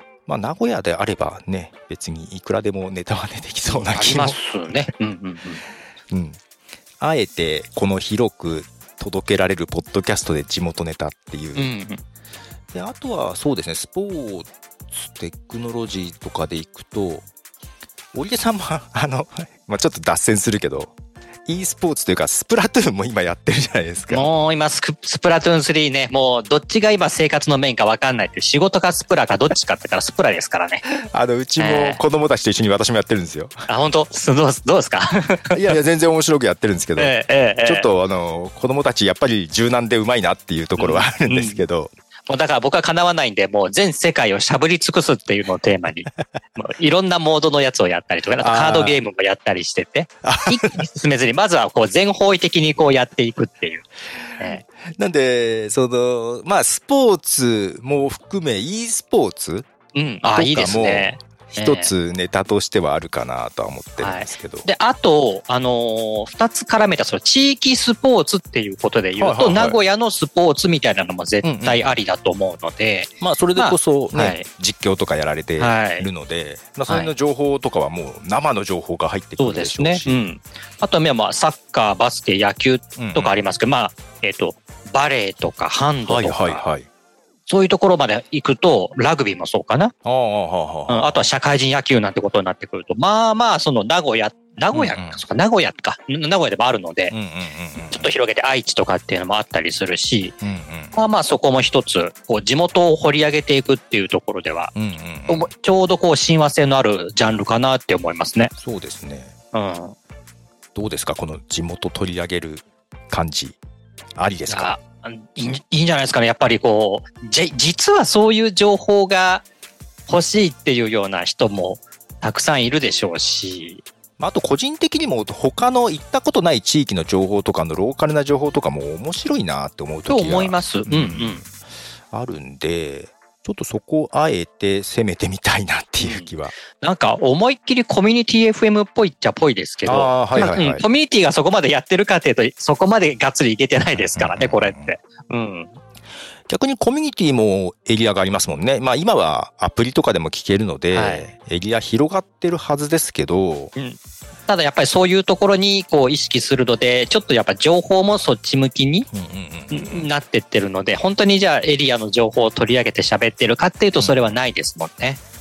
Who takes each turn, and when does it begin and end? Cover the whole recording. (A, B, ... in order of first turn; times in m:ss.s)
0:00.3-0:04.4 A
0:03.7-0:05.6 B
0:06.1-0:06.4 A
0:07.0-0:11.7 A
0:11.6-0:12.0 B
0:12.7-0:17.2 A
0:18.1-0:20.9 A
0:21.4-0:24.3 A
0:24.1-0:30.8 B
0:30.8-0:33.6 A
0:31.6-0:32.0 B
0:33.7-0:35.8 B
0:35.5-0:41.9 A
0:37.0-0:37.9 B
0:40.8-0:41.6 B
0:42.3-0:53.8 B
0:48.4-0:49.0 A
0:50.2-0:50.8 A
0:54.4-0:59.7 A
0:54.4-0:54.6 B
0:59.9-1:01.9 B
1:00.3-1:04.7 A
1:04.0-1:14.5 B
1:09.2-1:09.8 A
1:11.4-1:11.9 A
1:13.2-1:20.2 A
1:15.6-1:16.1 B
1:19.4-1:26.6 B
1:23.0-1:23.3 A
1:26.1-1:26.9 A
1:27.5-1:29.9 B
1:30.0-1:31.2 A
1:30.9-1:37.1 B
1:34.7-1:35.2 A
1:37.1-1:38.1 A
1:37.9-1:40.4 B
1:40.4-1:40.9 A
1:40.9-1:44.7 B
1:44.7-1:45.5 A
1:45.3-1:48.5 B
1:48.6-1:49.3 A
1:49.5-1:50.0 B
1:50.7-1:53.6 A
1:54.2-1:54.7 A
1:54.5-1:59.4 B
2:00.1-2:03.8 B
2:04.2-2:11.5 A
2:10.1-2:11.4 B
2:12.1-2:16.5 A
2:16.0-2:25.8 B
2:19.8-2:20.8 A
2:23.9-2:24.9 A
2:26.5-2:33.7 A
2:30.9-2:31.3 B
2:33.7-2:39.1 B
2:39.1-2:40.1 A
2:39.7-2:45.2 B
2:44.0-2:44.3 A